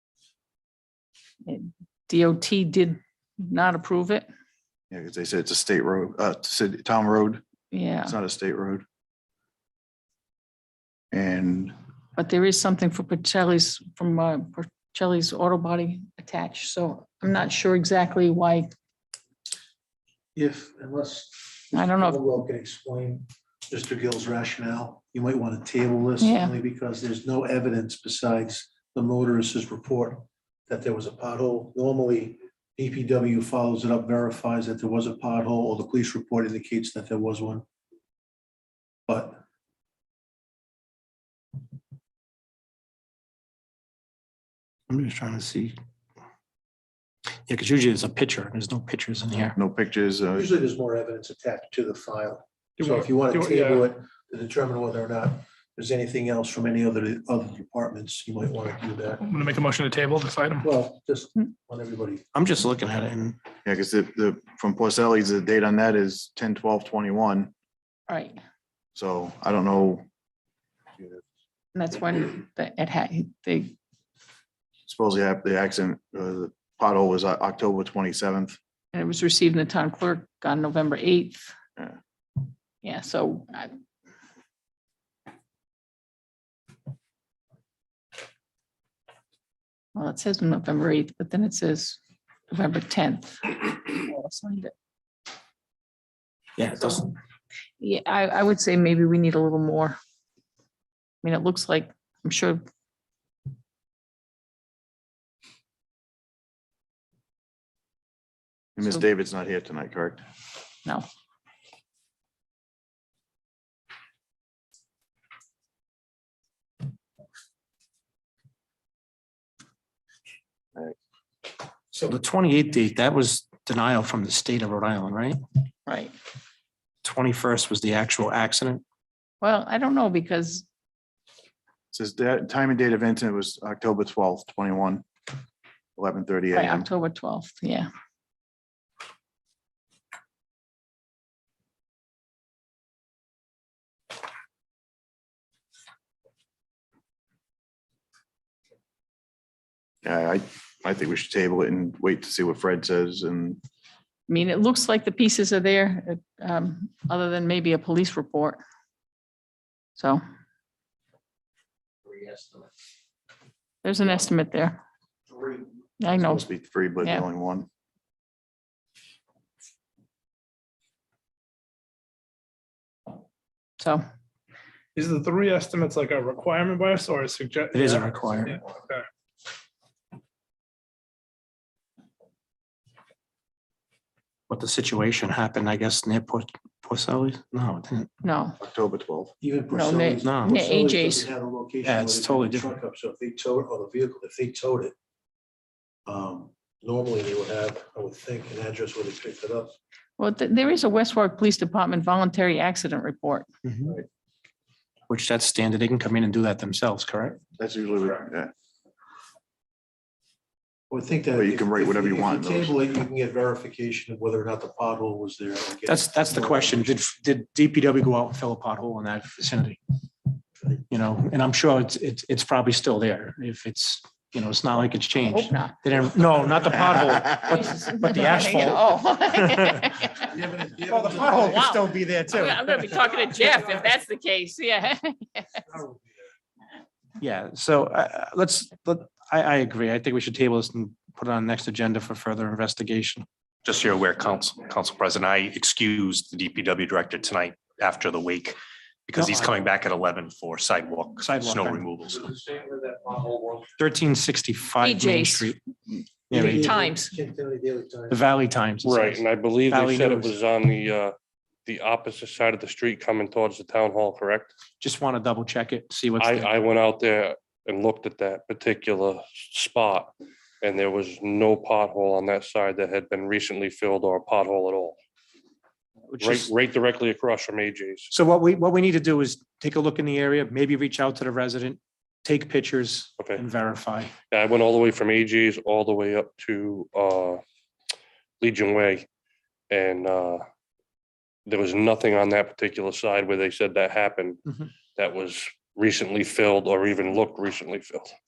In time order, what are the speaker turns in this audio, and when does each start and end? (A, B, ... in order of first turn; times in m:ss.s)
0:01.4-0:04.3 A
0:04.9-0:07.4 B
0:07.7-0:08.2 A
0:08.0-0:08.8 B
0:11.1-0:11.7 B
0:12.2-0:18.7 A
0:20.3-0:37.6 C
0:21.7-0:22.2 A
0:26.2-0:26.6 A
0:39.1-0:39.4 C
0:44.9-0:45.7 D
0:47.5-0:49.6 D
0:49.6-0:50.5 B
0:50.3-0:59.2 C
0:52.8-0:53.9 E
0:59.3-1:00.7 E
1:00.6-1:02.2 C
1:02.3-1:03.4 D
1:03.6-1:07.5 B
1:08.1-1:08.4 A
1:08.9-1:10.0 B
1:11.7-1:13.7 A
1:14.9-1:18.6 B
1:18.9-1:21.5 A
1:22.8-1:23.7 A
1:29.9-1:32.0 A
1:32.5-1:34.7 A
1:36.6-1:37.1 D
1:37.8-1:40.0 A
1:41.2-1:42.6 A
1:48.8-1:50.2 B
2:01.9-2:05.4 D
2:05.9-2:06.1 A
2:07.0-2:08.8 D
2:09.4-2:10.7 A
2:11.9-2:15.0 B
2:16.0-2:16.8 B
2:16.5-2:17.9 A
2:30.0-2:33.6 B
2:34.3-2:38.6 A
2:40.0-2:40.2 A
2:43.8-2:44.8 A
2:46.0-2:46.4 A
2:46.1-2:47.7 B
2:55.0-2:59.1 E
2:57.7-2:58.6 D
3:04.5-3:08.1 D
3:08.2-3:08.6 A
3:08.6-3:09.3 B
3:09.4-3:14.9 C
3:09.7-3:11.3 A
3:10.2-3:10.6 D
3:11.8-3:12.7 D
3:16.0-3:19.7 C
3:20.2-3:23.5 A
3:23.6-3:23.9 D
3:25.1-3:27.4 D
3:27.6-3:28.5 B
3:30.9-3:37.0 C
3:31.4-3:32.7 B
3:35.8-3:39.8 D
3:40.9-3:48.8 D
3:45.2-3:45.8 A
3:47.5-3:50.3 A
3:49.3-3:49.8 D
3:50.2-3:51.6 C
3:50.9-3:52.6 D
3:51.3-3:55.6 A
3:55.7-3:56.0 C
3:57.2-4:03.2 D
4:03.6-4:12.3 F
4:09.2-4:09.5 D
4:11.2-4:11.8 D
4:12.1-4:13.7 G
4:13.8-4:15.6 D
4:14.8-4:15.5 A
4:16.3-4:16.7 D
4:16.3-4:18.2 C
4:16.5-4:17.1 A
4:18.1-4:20.3 D
4:18.8-4:24.5 G
4:24.8-4:26.5 D
4:26.2-4:35.0 G
4:36.1-4:36.5 D
4:36.2-4:38.1 G
4:38.1-4:44.1 D
4:43.2-4:43.4 G
4:44.3-4:47.4 G
4:48.4-4:49.1 G
4:49.7-4:50.4 G
4:51.4-4:54.4 G
4:54.9-4:58.1 G